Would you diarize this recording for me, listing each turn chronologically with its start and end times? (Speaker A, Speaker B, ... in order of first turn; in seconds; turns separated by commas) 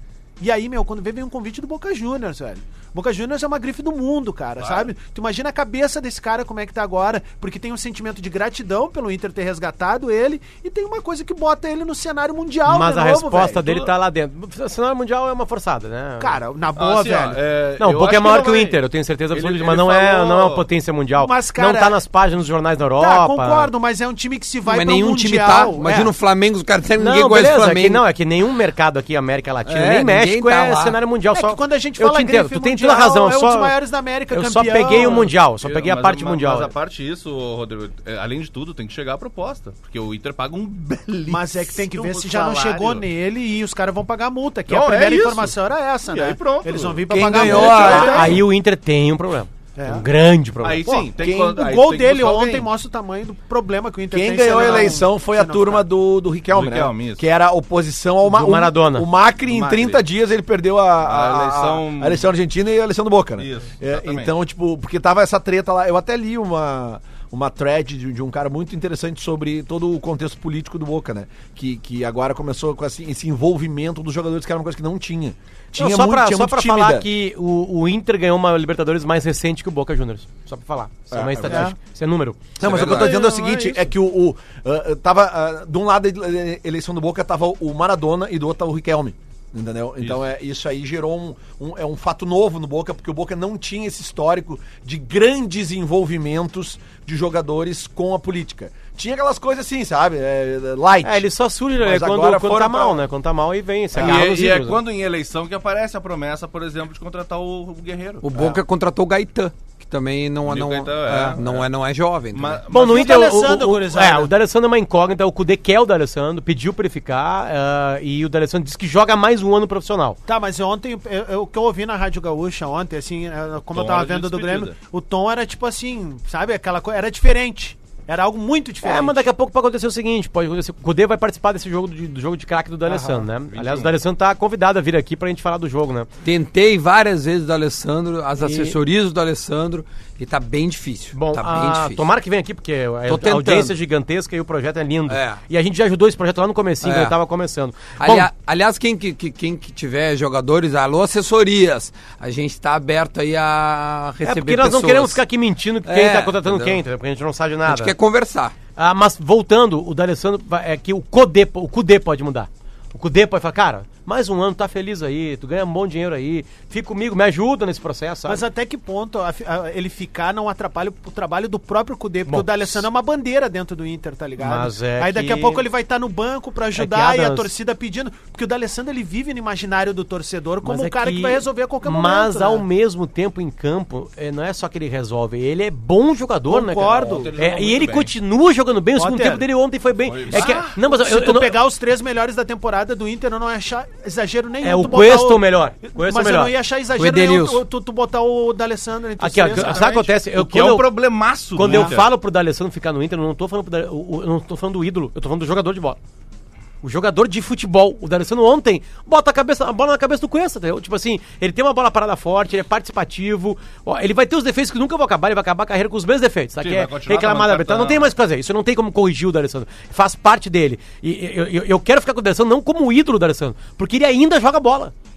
Speaker A: 0.4-13.6, Speaker B: 4.6-4.9, Speaker C: 12.7-16.4, Speaker A: 16.2-17.4, Speaker B: 16.8-18.8, Speaker C: 17.8-23.7, Speaker B: 19.3-20.6, Speaker A: 21.2-22.0, Speaker A: 23.0-26.1, Speaker D: 24.6-28.0, Speaker C: 27.0-33.8, Speaker D: 29.6-31.0, Speaker A: 31.3-35.3, Speaker C: 34.3-36.7, Speaker B: 34.9-43.1, Speaker A: 41.3-48.4, Speaker B: 44.7-47.1, Speaker C: 47.1-51.0, Speaker D: 47.3-48.1, Speaker E: 47.3-48.2, Speaker B: 47.6-48.0, Speaker A: 49.8-50.0, Speaker B: 50.6-52.7, Speaker A: 50.9-55.9, Speaker E: 51.2-51.6, Speaker E: 54.1-77.1, Speaker B: 54.4-55.0, Speaker B: 56.5-57.2, Speaker C: 58.2-59.1, Speaker B: 59.5-60.0, Speaker B: 61.0-62.3, Speaker B: 63.4-64.3, Speaker C: 75.7-83.1, Speaker E: 81.1-81.7, Speaker A: 81.5-81.8, Speaker E: 82.6-103.0, Speaker A: 82.7-83.8, Speaker C: 101.0-104.8, Speaker B: 103.9-108.2, Speaker D: 108.2-112.6, Speaker A: 108.3-108.6, Speaker B: 110.4-111.7, Speaker B: 112.3-113.4, Speaker C: 112.7-120.2, Speaker A: 112.7-114.3, Speaker A: 120.3-129.2, Speaker B: 123.7-124.8, Speaker C: 128.8-136.1, Speaker A: 132.8-133.2, Speaker B: 133.5-134.0, Speaker D: 136.2-142.0, Speaker C: 138.4-138.8, Speaker C: 141.1-148.3, Speaker D: 143.1-143.7, Speaker D: 145.1-145.4, Speaker D: 146.8-147.2, Speaker D: 147.9-155.2, Speaker C: 154.2-157.9, Speaker D: 155.8-156.8, Speaker D: 157.7-158.5, Speaker C: 158.8-168.4, Speaker A: 168.2-182.7, Speaker C: 172.2-172.8, Speaker C: 174.4-175.6, Speaker C: 176.7-177.5, Speaker C: 180.6-191.6, Speaker A: 186.5-187.3, Speaker B: 187.0-188.1, Speaker A: 188.9-189.4, Speaker B: 190.1-190.7, Speaker A: 190.3-200.1, Speaker C: 194.6-196.5, Speaker D: 196.9-197.6, Speaker C: 199.2-200.9, Speaker B: 199.5-202.1, Speaker C: 201.5-206.0, Speaker A: 201.6-202.0, Speaker C: 206.8-224.9, Speaker B: 216.6-218.1